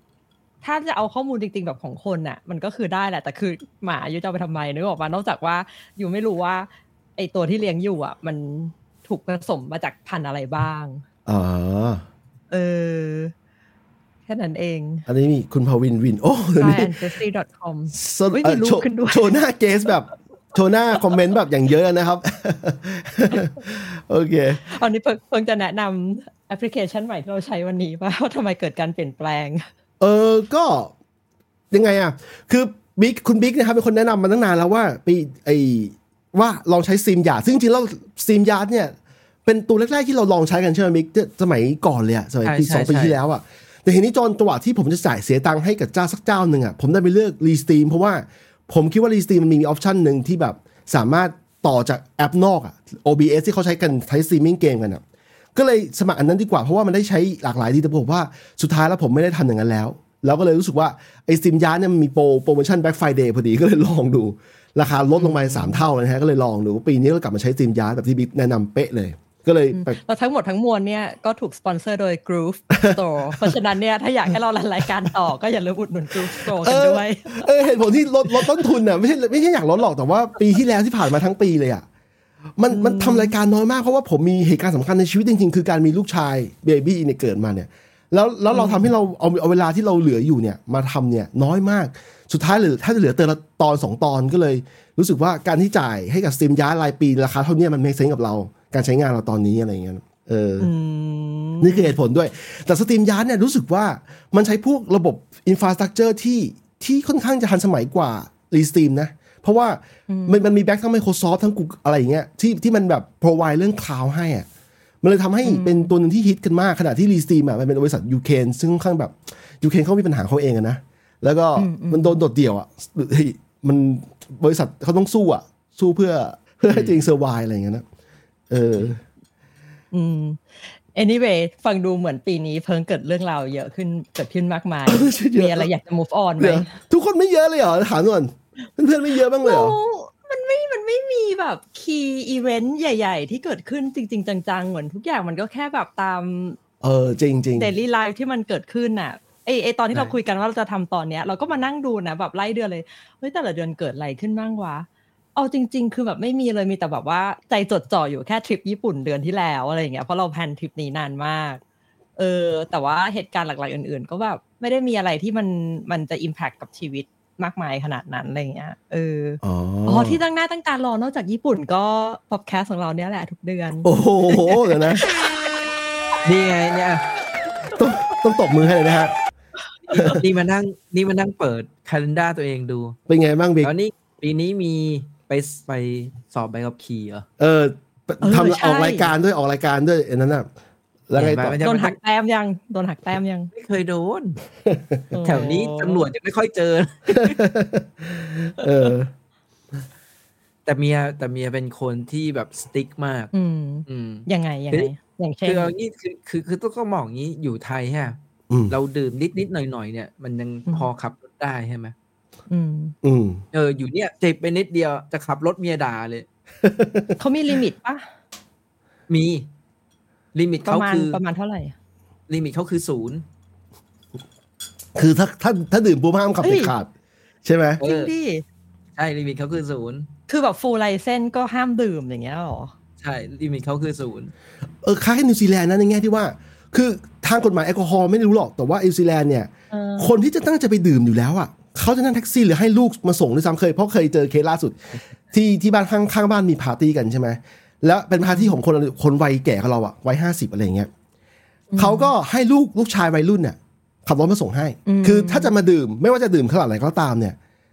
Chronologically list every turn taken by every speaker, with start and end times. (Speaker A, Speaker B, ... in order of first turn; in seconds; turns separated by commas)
Speaker A: 0.6-11.0, Speaker B: 11.2-12.0, Speaker A: 12.5-13.3, Speaker A: 14.3-15.0, Speaker B: 15.1-16.9, Speaker A: 16.6-19.4, Speaker B: 17.9-24.6, Speaker A: 24.5-29.6, Speaker B: 30.0-30.9, Speaker B: 31.7-38.9, Speaker B: 39.5-55.0, Speaker C: 42.4-43.2, Speaker B: 55.5-70.0, Speaker A: 65.2-65.8, Speaker A: 69.7-77.5, Speaker B: 72.7-73.5, Speaker B: 76.4-81.8, Speaker B: 82.6-100.7, Speaker A: 82.7-83.3, Speaker A: 88.5-88.9, Speaker A: 100.6-101.9, Speaker B: 101.6-114.5, Speaker A: 110.1-110.4, Speaker B: 115.0-127.8, Speaker A: 115.4-115.9, Speaker A: 121.5-122.2, Speaker C: 126.7-126.9, Speaker B: 128.5-129.0, Speaker A: 129.9-136.8, Speaker B: 134.9-135.7, Speaker B: 136.4-139.7, Speaker A: 139.4-146.6, Speaker B: 146.8-147.7, Speaker A: 147.6-161.6, Speaker A: 162.2-175.3, Speaker B: 169.4-170.2, Speaker B: 173.8-175.0, Speaker C: 176.2-177.1, Speaker B: 177.7-179.1, Speaker A: 179.9-180.2, Speaker B: 179.9-180.2, Speaker C: 180.1-182.9, Speaker B: 183.1-183.7, Speaker C: 183.6-187.2, Speaker B: 187.4-190.5, Speaker A: 188.2-189.1, Speaker B: 191.1-191.6, Speaker C: 191.1-191.9, Speaker A: 191.6-193.5, Speaker C: 193.5-194.4, Speaker B: 194.6-195.1, Speaker A: 195.1-196.1, Speaker C: 195.2-197.4, Speaker B: 197.1-199.1, Speaker C: 200.7-203.3, Speaker A: 203.3-205.7, Speaker C: 203.9-204.9, Speaker C: 205.4-208.2, Speaker B: 208.5-208.7, Speaker C: 208.7-211.9, Speaker A: 212.5-212.9, Speaker B: 213.0-213.4, Speaker C: 213.5-216.2, Speaker B: 216.6-217.2, Speaker A: 217.2-218.1, Speaker C: 219.1-219.5, Speaker C: 220.3-221.2, Speaker A: 220.6-221.8, Speaker C: 222.3-223.2, Speaker B: 224.9-226.9, Speaker A: 226.4-226.7, Speaker B: 227.4-227.8, Speaker C: 227.8-228.1, Speaker A: 227.8-228.4, Speaker C: 229.0-230.1, Speaker A: 230.3-232.7, Speaker C: 233.0-234.3, Speaker B: 234.8-244.8, Speaker A: 239.7-240.1, Speaker B: 245.3-250.9, Speaker A: 248.2-248.6, Speaker A: 251.7-252.1, Speaker B: 251.8-257.4, Speaker A: 254.8-255.5